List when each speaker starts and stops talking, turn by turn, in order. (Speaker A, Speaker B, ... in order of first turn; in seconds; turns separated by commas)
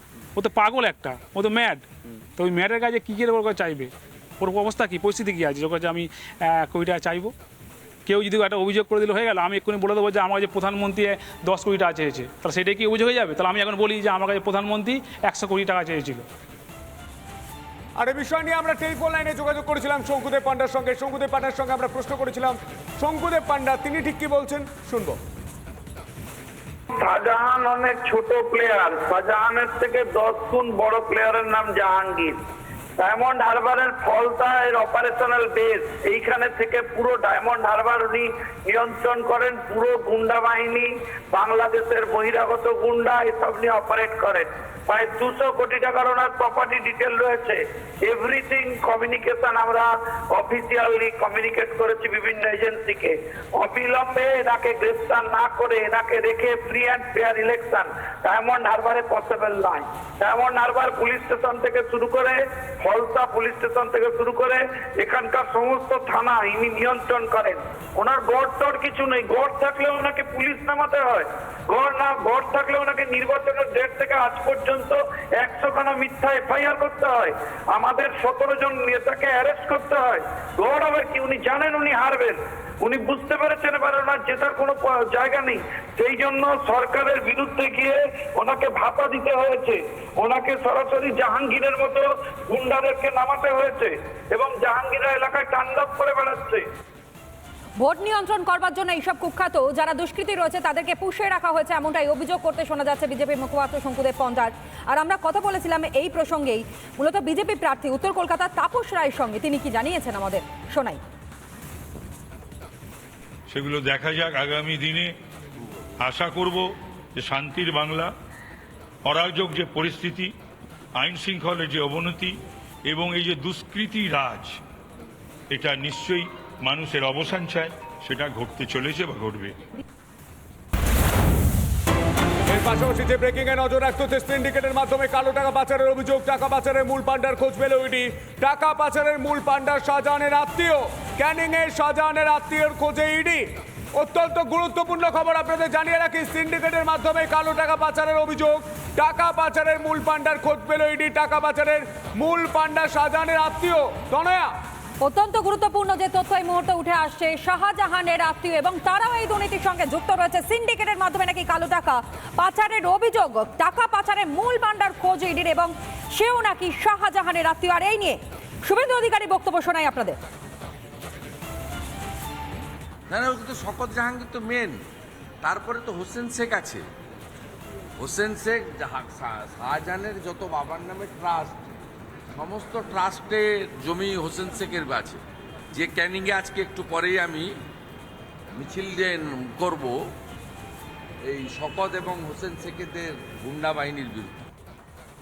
Speaker A: 0.4-1.9, Speaker A: 2.4-7.3, Speaker A: 8.1-16.2, Speaker B: 18.0-25.2, Speaker C: 26.9-32.4, Speaker C: 33.0-96.6, Speaker D: 97.8-111.0, Speaker E: 113.5-115.1, Speaker E: 116.0-116.7, Speaker E: 117.2-118.1, Speaker E: 119.1-120.3, Speaker E: 121.0-122.4, Speaker E: 122.9-124.5, Speaker E: 125.5-129.6, Speaker B: 132.5-154.6, Speaker D: 155.0-170.2, Speaker F: 173.1-174.8, Speaker F: 175.4-176.8, Speaker F: 178.0-181.7, Speaker F: 182.3-185.2, Speaker F: 185.7-187.5, Speaker F: 188.5-189.9, Speaker F: 191.2-194.5